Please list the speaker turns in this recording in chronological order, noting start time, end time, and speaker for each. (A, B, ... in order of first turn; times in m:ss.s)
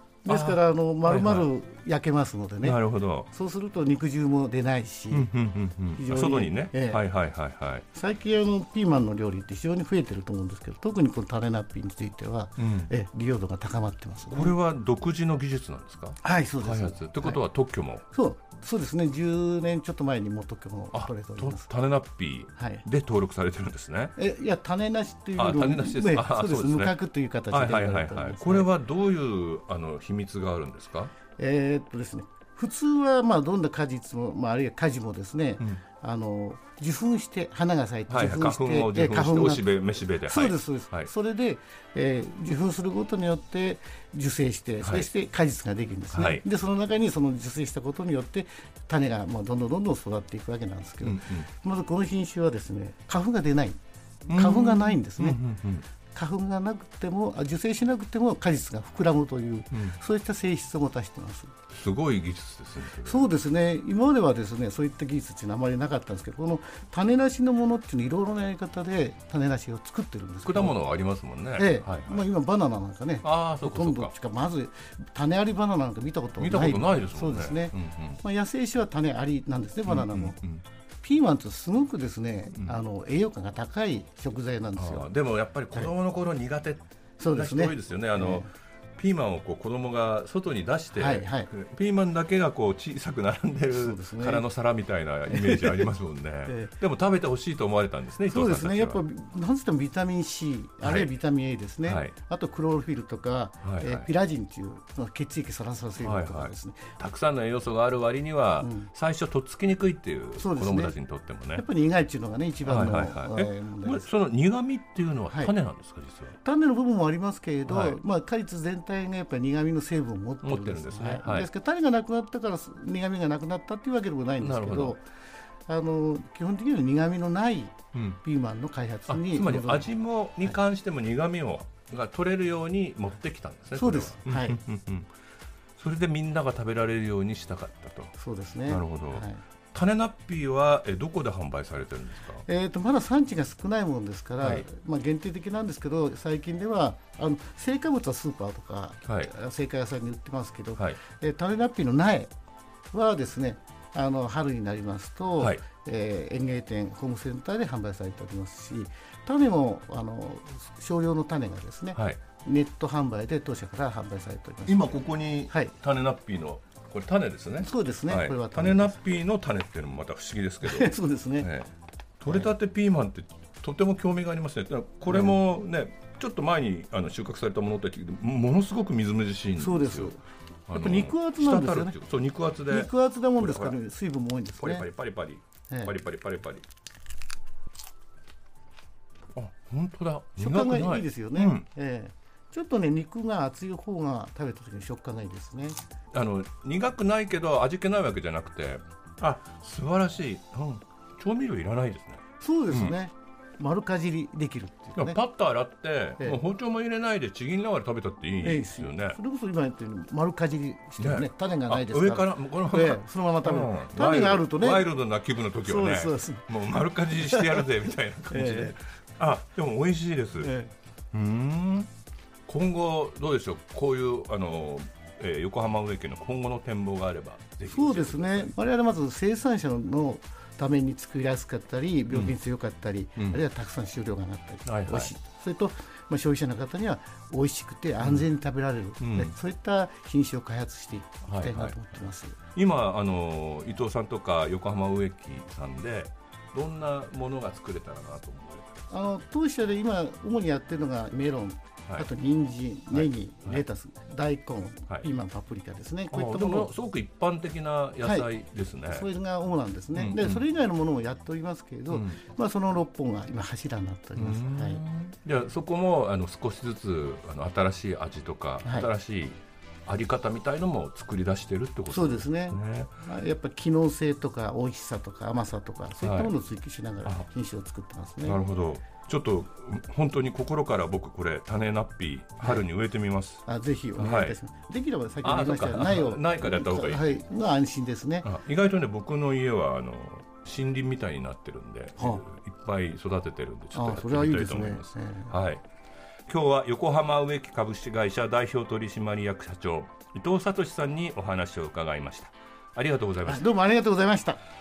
0:00.2-0:05.3 A
0:00.2-0:01.5 B
0:02.6-0:03.3 B
0:05.1-0:07.8 B
0:05.9-0:07.0 A
0:07.9-0:14.5 A
0:12.6-0:12.9 B
0:14.3-0:18.0 B
0:16.2-0:17.4 A
0:18.1-0:21.7 A
0:20.9-0:24.1 B
0:22.6-0:22.8 A
0:24.2-0:28.7 A
0:25.4-0:27.0 B
0:27.5-0:31.1 B
0:31.4-0:39.6 A
0:38.1-0:41.1 B
0:40.2-0:55.4 A
0:44.8-0:45.1 B
0:46.1-0:46.4 B
0:51.0-0:51.5 B
0:54.3-0:55.8 B
0:56.1-1:01.5 A
1:01.7-1:03.3 B
1:03.0-1:10.8 A
1:10.4-1:12.2 B
1:11.6-1:20.4 A
1:13.2-1:14.1 B
1:16.4-1:18.2 B
1:19.9-1:20.6 B
1:21.0-1:25.1 A
1:22.5-1:22.8 B
1:24.8-1:39.0 B
1:27.2-1:28.5 A
1:30.9-1:31.5 A
1:33.7-1:34.4 A
1:35.3-1:35.9 A
1:36.5-1:36.7 A
1:38.3-1:46.9 A
1:40.8-1:41.1 B
1:41.8-1:42.1 B
1:43.6-1:44.1 B
1:46.0-1:51.6 B
1:48.6-1:48.9 A
1:50.4-1:50.9 A
1:51.5-1:54.1 A
1:52.6-1:56.4 B
1:56.4-2:05.0 A
1:57.6-1:58.0 B
2:00.4-2:01.5 B
2:04.4-2:05.0 B
2:05.7-2:09.9 A
2:07.9-2:08.2 B
2:09.1-2:15.1 B
2:13.7-2:14.6 A
2:15.8-2:18.1 B
2:18.2-2:19.4 A
2:18.7-2:22.4 B
2:22.4-2:32.3 A
2:24.4-2:24.6 B
2:29.0-2:29.3 B
2:32.9-2:45.7 A
2:41.9-2:42.2 B
2:44.6-3:00.1 B
2:47.6-2:49.0 A
2:50.6-2:51.5 A
2:55.1-2:55.4 A
2:59.6-3:02.0 A
3:00.7-3:03.8 B
3:02.7-3:04.9 A
3:04.6-3:06.6 B
3:09.3-3:11.7 B
3:10.4-3:15.8 A
3:16.1-3:23.0 B
3:22.4-3:25.2 A
3:25.0-3:29.2 B
3:28.4-3:34.9 A
3:31.0-3:40.5 B
3:35.6-3:37.7 A
3:38.3-3:38.8 A
3:40.4-3:40.7 A
3:41.1-3:41.9 B
3:42.5-3:48.5 B
3:47.7-4:02.4 A
3:52.1-3:52.4 B
3:53.2-3:53.4 B
3:54.6-3:55.1 B
3:58.0-3:58.3 B
3:59.0-3:59.3 B
4:01.2-4:01.8 B
4:02.5-4:09.0 B
4:08.9-4:16.7 A
4:12.9-4:13.6 B
4:16.1-4:19.1 B
4:18.0-4:18.3 A
4:18.8-4:24.8 A
4:19.9-4:20.4 B
4:21.9-4:22.2 B
4:24.2-4:32.9 B
4:28.6-4:28.9 A
4:31.9-4:38.4 A
4:36.0-4:36.3 B
4:38.2-4:43.4 B
4:43.4-4:48.3 A
4:44.0-4:44.4 B
4:45.2-4:47.2 B
4:48.2-4:55.6 B
4:52.0-4:52.2 A
4:53.7-4:55.3 A
4:56.3-5:03.5 B
5:03.2-5:04.4 A